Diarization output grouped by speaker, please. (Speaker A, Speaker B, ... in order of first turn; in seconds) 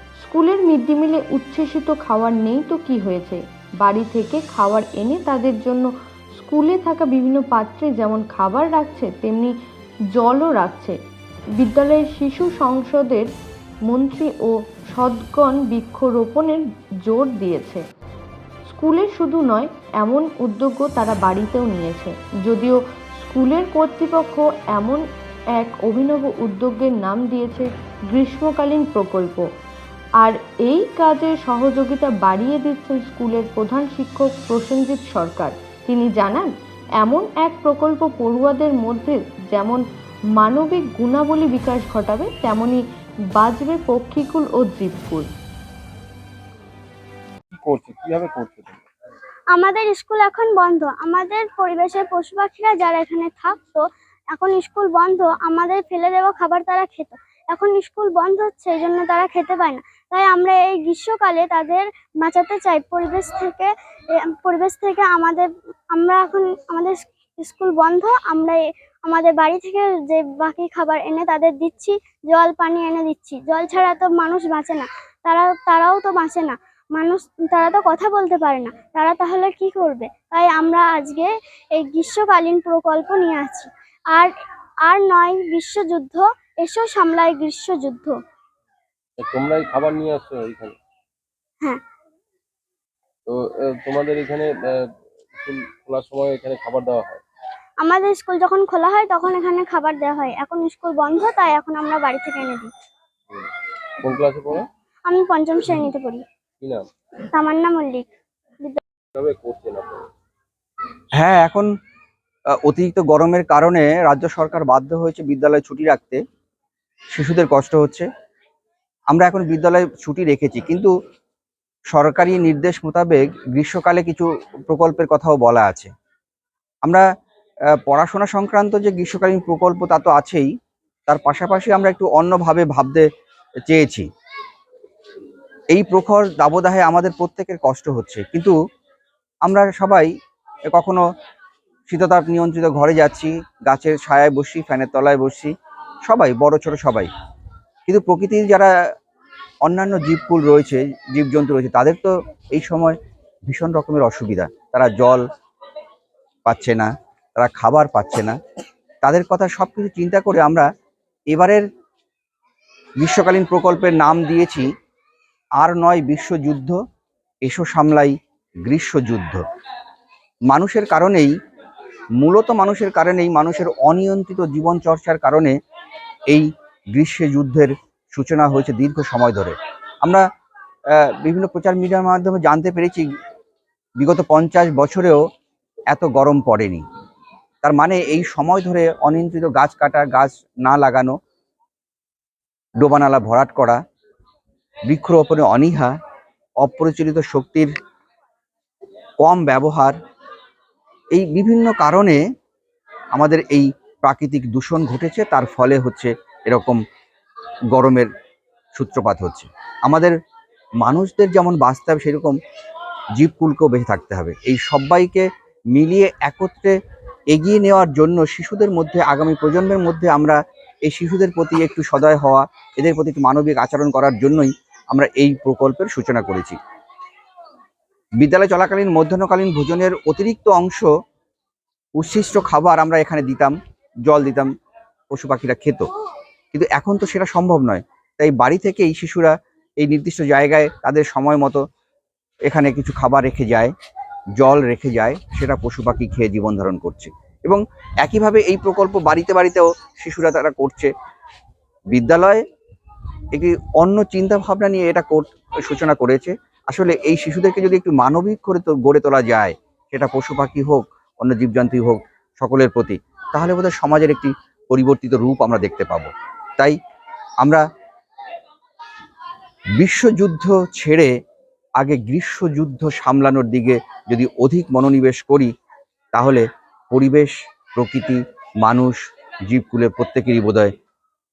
Speaker A: 0.2-9.5, 10.2-11.0, 11.6-13.3, 13.9-17.8, 18.6-25.0, 25.6-29.5, 30.2-39.8, 40.4-42.8, 43.4-45.3
Speaker B: 47.6-48.8, 89.2-90.8, 93.3-94.8, 95.4-97.2, 104.0-104.7, 106.6-106.9, 109.1-110.1
Speaker C: 49.5-84.3, 84.8-88.2, 97.8-102.7, 105.1-106.2, 107.3-108.1
Speaker D: 111.2-111.7, 112.6-116.2, 117.1-118.1, 119.1-120.9, 121.9-125.9, 127.7-130.5, 131.1-133.1, 133.7-134.1, 135.7-138.5, 139.4-140.1, 140.7-141.0, 141.9-145.5, 146.1-147.1, 147.9-148.7, 149.6-155.2, 156.4-158.4, 159.0-160.7, 161.3-161.7, 163.0-164.7, 165.6-166.8, 167.4-169.4, 170.5-171.4, 172.2-175.6, 176.3-180.3, 180.9-183.1, 184.0-185.2, 185.9-186.9, 187.6-191.2, 192.8-193.8, 194.9-196.0, 196.6-197.7, 199.2-200.0, 201.1-202.2, 203.1-206.8, 207.7-208.1, 208.8-210.2, 210.8-212.4, 213.2-216.8, 217.3-226.6, 228.2-230.9, 232.0-233.6, 234.1-234.5, 235.1-235.9, 236.5-241.6, 242.5-243.7, 244.4-250.9, 251.9-252.4, 253.3-266.8, 269.8-271.1, 271.8-275.5, 276.1-280.7